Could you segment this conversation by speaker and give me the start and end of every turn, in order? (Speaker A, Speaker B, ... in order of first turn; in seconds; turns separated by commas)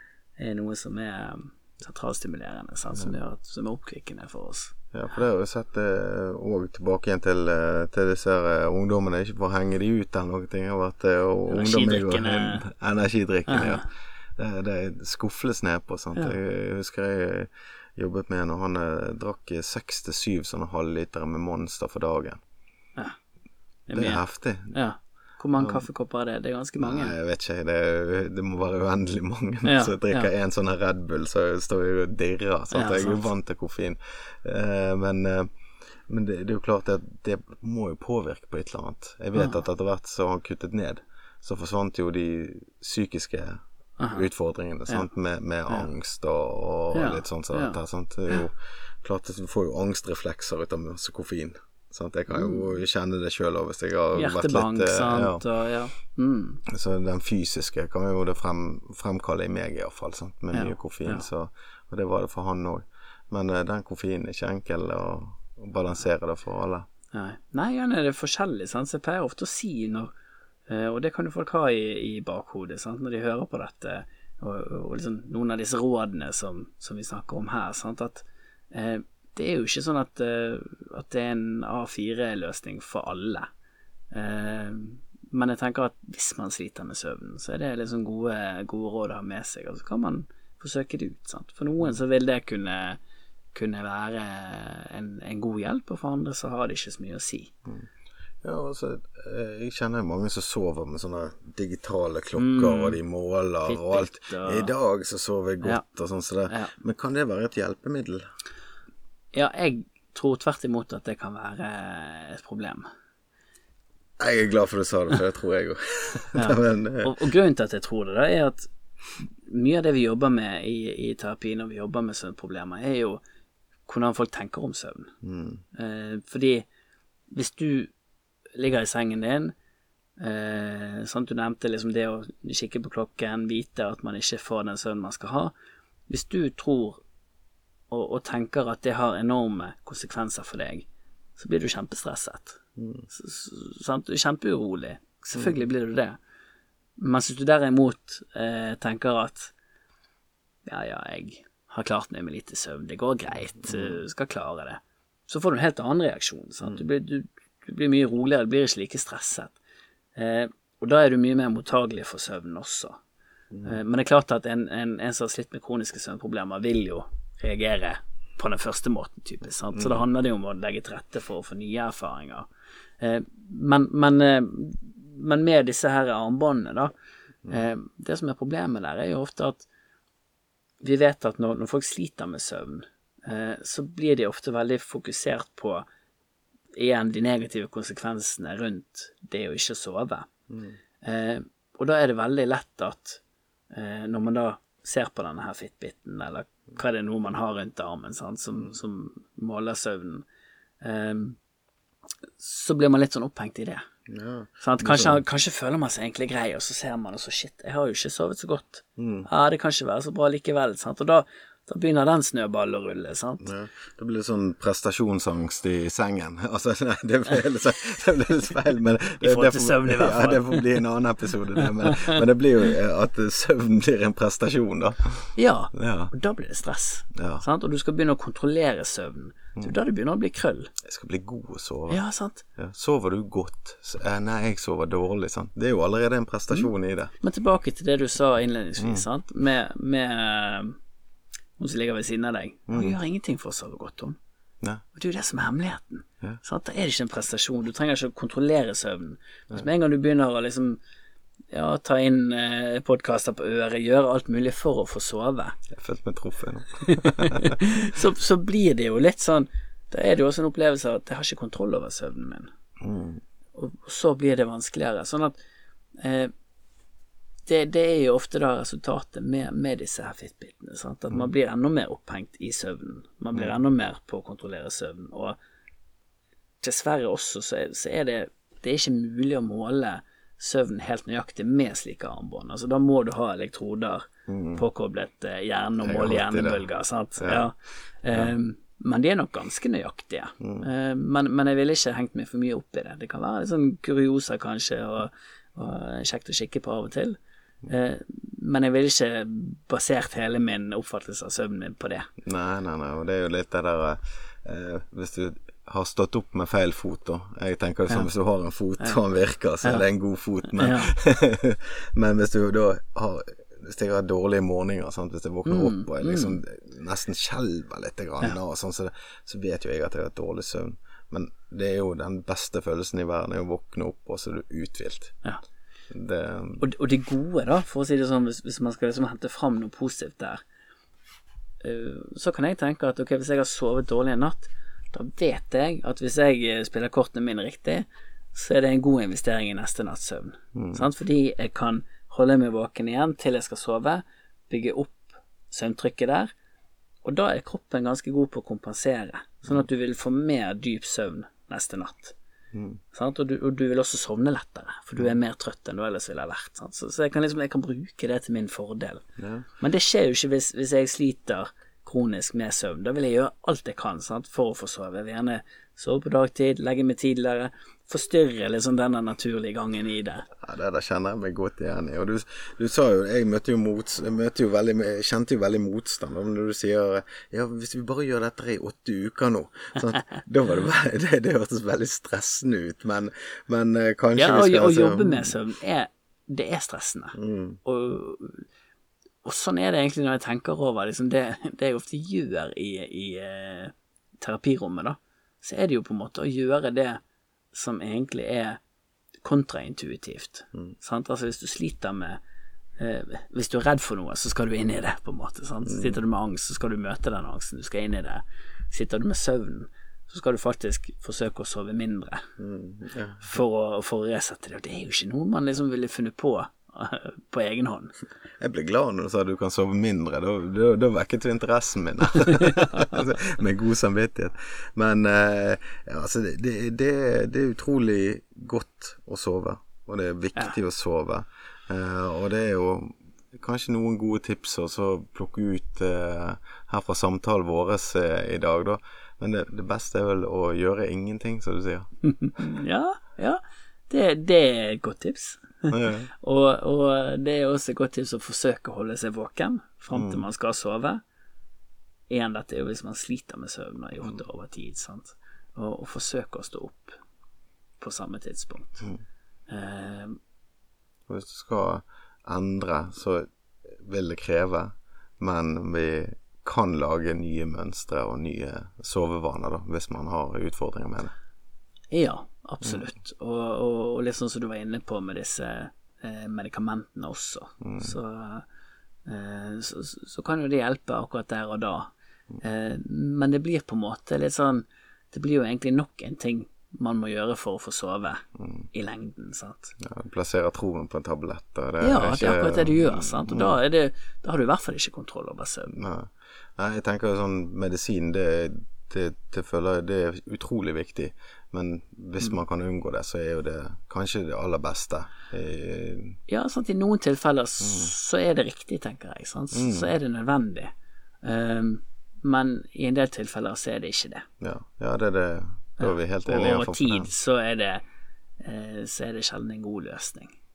Speaker A: 0.4-4.7, Speaker B: 4.9-22.4, Speaker A: 11.5-12.7, Speaker A: 13.5-13.8, Speaker A: 23.9-27.1, Speaker B: 23.9-24.7, Speaker B: 25.6-25.9, Speaker B: 26.8-35.5, Speaker A: 29.6-30.3, Speaker A: 32.7-33.2, Speaker B: 36.1-55.5, Speaker A: 39.4-39.6, Speaker A: 44.0-44.2, Speaker A: 46.9-47.8, Speaker A: 52.3-52.8, Speaker A: 54.1-56.6, Speaker B: 56.7-66.9, Speaker A: 60.5-61.2, Speaker A: 67.1-70.1, Speaker A: 70.7-83.5, Speaker A: 84.1-93.0, Speaker A: 93.5-97.5, Speaker B: 98.4-108.2, Speaker A: 102.4-103.0, Speaker A: 103.7-104.7, Speaker A: 109.3-112.9, Speaker B: 114.2-117.2, Speaker A: 116.3-123.2, Speaker A: 123.9-125.1, Speaker B: 125.2-125.6, Speaker A: 125.7-126.7, Speaker A: 127.3-127.9, Speaker A: 128.6-129.5, Speaker A: 130.2-135.5, Speaker A: 136.1-137.0, Speaker A: 137.9-146.2, Speaker B: 142.8-143.1, Speaker B: 145.3-145.6, Speaker A: 147.0-149.5, Speaker A: 150.7-159.6, Speaker B: 153.6-154.0, Speaker A: 160.2-163.0, Speaker B: 163.5-163.8, Speaker A: 163.6-172.5, Speaker B: 169.7-170.1, Speaker A: 173.0-176.9, Speaker A: 177.5-179.7, Speaker A: 180.8-185.9, Speaker A: 186.7-190.3, Speaker B: 190.5-190.8, Speaker A: 191.0-200.2, Speaker A: 200.8-201.4, Speaker A: 202.4-203.8, Speaker B: 204.1-205.2, Speaker A: 204.6-213.5, Speaker B: 209.0-209.3, Speaker B: 213.4-226.1, Speaker A: 219.2-220.7, Speaker A: 221.8-222.2, Speaker A: 225.4-230.7, Speaker B: 227.2-227.4, Speaker B: 230.8-232.0, Speaker A: 231.9-232.4, Speaker B: 232.6-237.1, Speaker A: 237.2-240.8, Speaker B: 238.8-239.1, Speaker A: 241.6-244.2, Speaker B: 242.7-243.0, Speaker A: 244.9-250.8, Speaker A: 251.5-255.6, Speaker B: 255.7-257.8, Speaker A: 256.8-262.5, Speaker B: 262.8-263.2, Speaker A: 263.6-265.4, Speaker A: 266.0-266.3, Speaker A: 267.5-275.4, Speaker A: 276.6-302.1, Speaker B: 284.3-284.7, Speaker B: 285.8-287.5, Speaker B: 290.4-290.7, Speaker B: 302.2-325.2, Speaker A: 310.5-310.9, Speaker A: 315.4-316.4, Speaker B: 325.9-326.6, Speaker A: 326.6-330.4, Speaker A: 331.6-346.3, Speaker B: 340.6-340.9, Speaker A: 347.0-352.2, Speaker B: 352.5-352.8, Speaker A: 352.9-359.0, Speaker B: 359.2-359.5, Speaker A: 359.6-370.3, Speaker B: 370.4-385.4, Speaker A: 384.2-388.5, Speaker B: 387.1-387.6, Speaker A: 389.2-397.0, Speaker A: 397.5-398.6, Speaker A: 399.2-402.2, Speaker A: 402.8-412.2, Speaker B: 405.6-406.0, Speaker B: 412.4-413.2, Speaker A: 413.2-417.9, Speaker B: 418.4-441.9, Speaker A: 422.4-422.8, Speaker A: 442.0-451.0, Speaker B: 445.7-446.1, Speaker B: 449.9-450.2, Speaker A: 452.1-457.0, Speaker A: 457.8-458.9, Speaker A: 459.5-460.2, Speaker B: 461.1-471.1, Speaker A: 471.9-478.4, Speaker B: 477.6-478.0, Speaker A: 479.1-489.8, Speaker B: 488.4-488.7, Speaker B: 489.8-493.6, Speaker A: 491.8-495.7, Speaker B: 495.7-506.2, Speaker A: 506.3-510.7, Speaker B: 507.6-507.9, Speaker B: 509.5-509.9, Speaker A: 511.2-514.3, Speaker B: 514.4-517.1, Speaker A: 515.8-517.8, Speaker A: 518.4-520.4